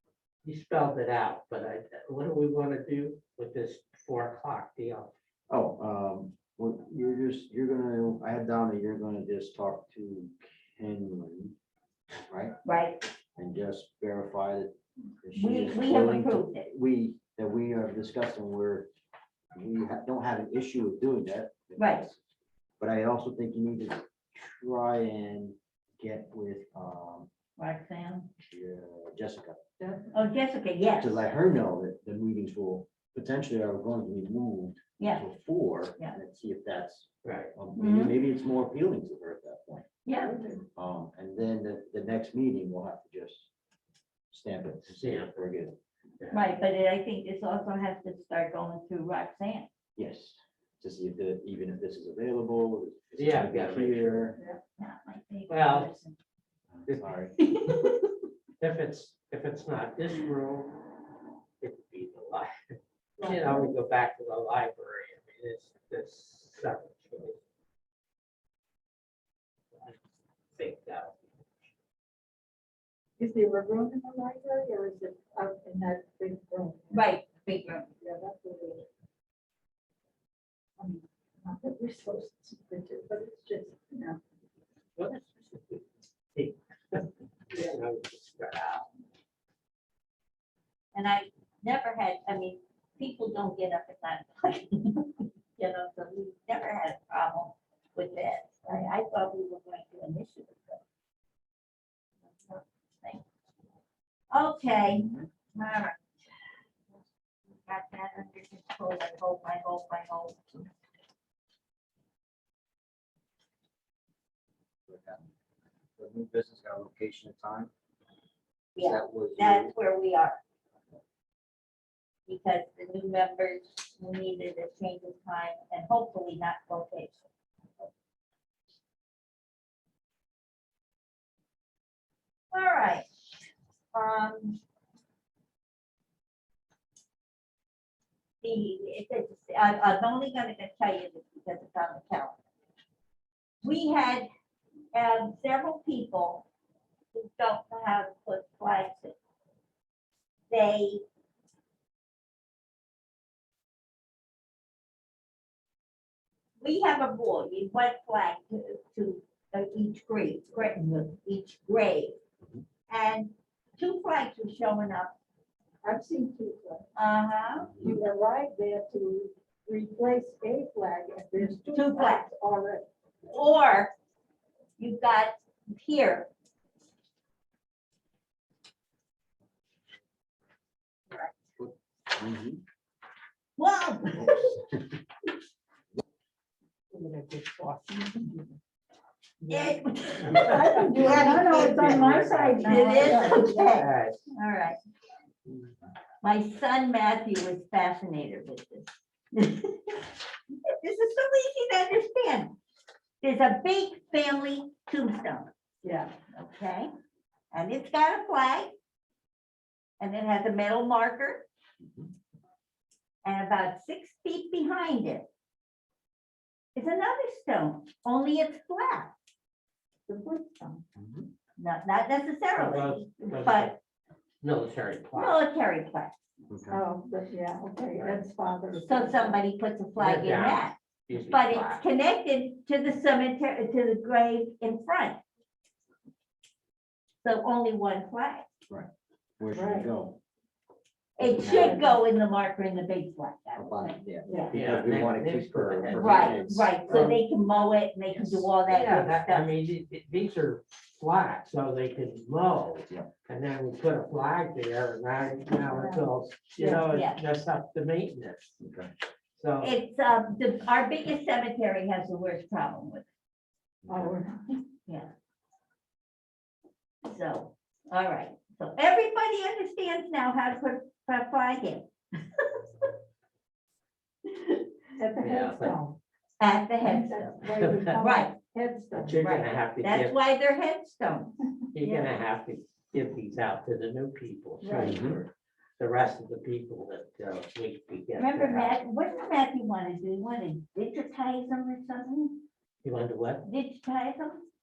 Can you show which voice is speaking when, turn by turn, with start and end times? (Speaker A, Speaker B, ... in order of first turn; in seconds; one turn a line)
Speaker A: 0.4-5.1
Speaker B: 5.5-11.5
Speaker B: 12.3-12.6
Speaker C: 12.6-13.0
Speaker B: 13.4-18.9
Speaker C: 15.3-16.7
Speaker B: 19.5-22.2
Speaker C: 21.8-22.1
Speaker B: 22.8-27.3
Speaker C: 27.6-28.3
Speaker B: 28.4-29.6
Speaker D: 29.8-30.2
Speaker C: 30.1-31.3
Speaker B: 30.9-39.9
Speaker C: 35.0-35.3
Speaker A: 37.2-37.5
Speaker C: 37.8-38.2
Speaker C: 40.0-40.3
Speaker D: 40.2-40.6
Speaker B: 40.8-43.5
Speaker B: 44.3-45.8
Speaker A: 44.9-45.4
Speaker C: 46.3-49.7
Speaker B: 50.0-54.4
Speaker A: 53.2-54.3
Speaker C: 54.8-56.2
Speaker A: 55.5-55.9
Speaker B: 56.7-57.3
Speaker A: 56.9-57.1
Speaker C: 57.4-58.1
Speaker A: 58.6-60.7
Speaker A: 61.6-67.4
Speaker D: 63.2-63.7
Speaker A: 70.5-71.3
Speaker D: 73.2-77.0
Speaker C: 76.9-77.9
Speaker D: 78.0-78.9
Speaker D: 80.8-84.2
Speaker A: 85.0-88.9
Speaker C: 90.9-100.8
Speaker C: 102.3-103.2
Speaker C: 104.3-106.0
Speaker B: 104.9-105.2
Speaker C: 107.6-110.7
Speaker B: 114.9-115.2
Speaker B: 116.0-117.7
Speaker C: 118.7-120.4
Speaker B: 118.8-119.7
Speaker C: 122.3-127.2
Speaker C: 132.5-133.1
Speaker C: 133.9-134.6
Speaker C: 138.4-142.4
Speaker C: 143.6-144.2
Speaker C: 144.9-146.4
Speaker C: 147.1-149.2
Speaker C: 150.5-151.0
Speaker C: 156.6-162.2
Speaker C: 162.9-165.1
Speaker D: 165.8-166.8
Speaker C: 166.9-167.7
Speaker B: 167.6-167.9
Speaker D: 167.8-172.8
Speaker C: 171.7-172.2
Speaker C: 173.3-173.9
Speaker C: 174.8-176.3
Speaker B: 181.6-182.6
Speaker C: 183.6-184.6
Speaker A: 186.9-188.5
Speaker C: 189.5-194.8
Speaker A: 190.2-194.2
Speaker D: 190.3-193.8
Speaker C: 196.2-199.5
Speaker C: 200.7-202.6
Speaker C: 203.2-205.5
Speaker D: 205.8-206.1
Speaker C: 206.3-206.9
Speaker C: 207.5-208.7
Speaker C: 210.0-211.4
Speaker B: 211.8-212.1
Speaker C: 213.2-215.3
Speaker C: 216.8-219.1
Speaker D: 220.1-220.8
Speaker B: 220.9-221.3
Speaker C: 221.6-223.7
Speaker A: 222.5-223.8
Speaker A: 224.4-225.4
Speaker C: 225.1-226.2
Speaker B: 226.5-226.8
Speaker D: 226.7-229.4
Speaker A: 227.9-228.2
Speaker C: 228.8-235.2
Speaker A: 229.9-231.8
Speaker C: 237.2-238.4
Speaker B: 238.7-240.2
Speaker D: 239.5-239.9
Speaker B: 241.2-241.8
Speaker C: 241.2-244.0
Speaker D: 241.5-241.9
Speaker B: 243.6-246.7
Speaker D: 244.2-244.6
Speaker A: 244.5-247.1
Speaker C: 245.9-249.5
Speaker A: 248.1-258.6
Speaker D: 255.6-256.9
Speaker C: 256.9-257.2
Speaker B: 258.6-258.9
Speaker A: 259.4-259.8
Speaker C: 259.6-263.1
Speaker B: 263.8-264.1
Speaker D: 263.9-264.6
Speaker C: 267.0-271.9
Speaker D: 274.9-276.0
Speaker A: 275.2-275.8
Speaker C: 276.4-277.4
Speaker D: 276.8-279.2
Speaker A: 277.5-277.9
Speaker C: 278.0-278.4
Speaker A: 279.0-280.1
Speaker C: 279.1-281.5
Speaker A: 281.7-288.8
Speaker D: 281.8-282.1
Speaker D: 284.6-285.0
Speaker B: 284.8-285.2
Speaker C: 288.2-292.4
Speaker A: 292.8-293.5
Speaker C: 293.4-294.5